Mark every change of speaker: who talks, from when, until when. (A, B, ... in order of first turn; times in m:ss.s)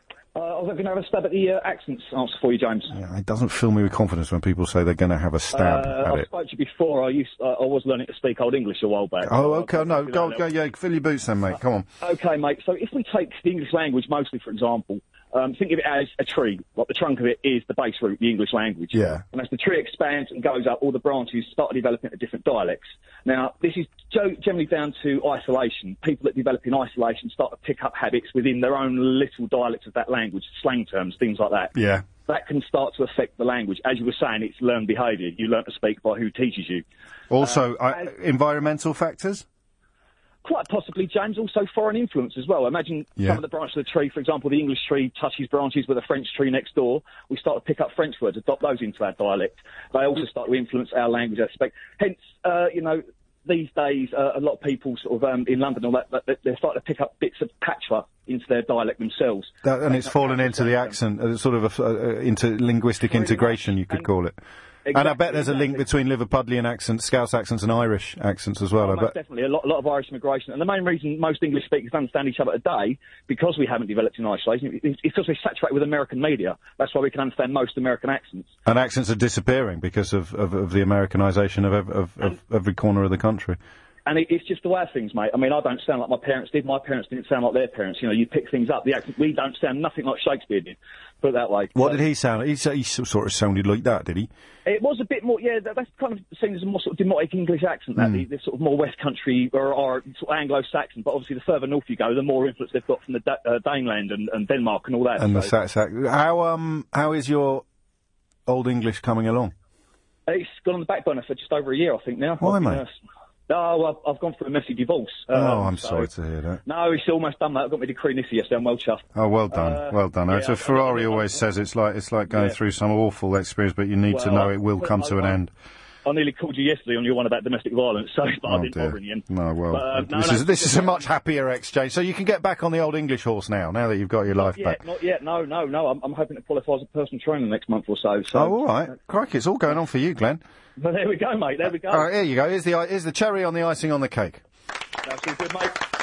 0:00.3-0:02.9 A
0:02.9-0:06.3 B
0:05.5-0:10.4 A
0:09.2-0:11.9 B
0:12.0-0:36.8 A
0:18.9-0:19.2 B
0:31.8-0:32.0 B
0:37.3-0:39.4 B
0:40.4-1:01.0 A
0:59.6-1:04.4 B
1:03.1-1:04.1 A
1:04.8-1:05.8 A
1:04.9-1:09.1 B
1:08.8-1:18.5 A
1:18.6-1:23.6 B
1:24.0-1:32.0 A
1:31.7-1:34.3 B
1:34.6-1:45.5 A
1:38.0-1:38.2 B
1:45.2-1:47.6 B
1:48.5-1:49.5 B
1:50.3-1:52.9 A
1:52.4-1:52.8 B
1:53.5-1:56.1 A
1:55.3-1:56.6 B
1:56.6-2:01.4 A
1:59.1-2:05.5 B
2:02.3-2:02.6 A
2:04.1-2:05.4 A
2:06.0-2:11.1 A
2:08.5-2:14.8 B
2:14.4-2:18.9 A
2:18.3-2:20.4 B
2:20.8-2:22.1 A
2:21.8-2:24.4 B
2:25.1-2:25.4 A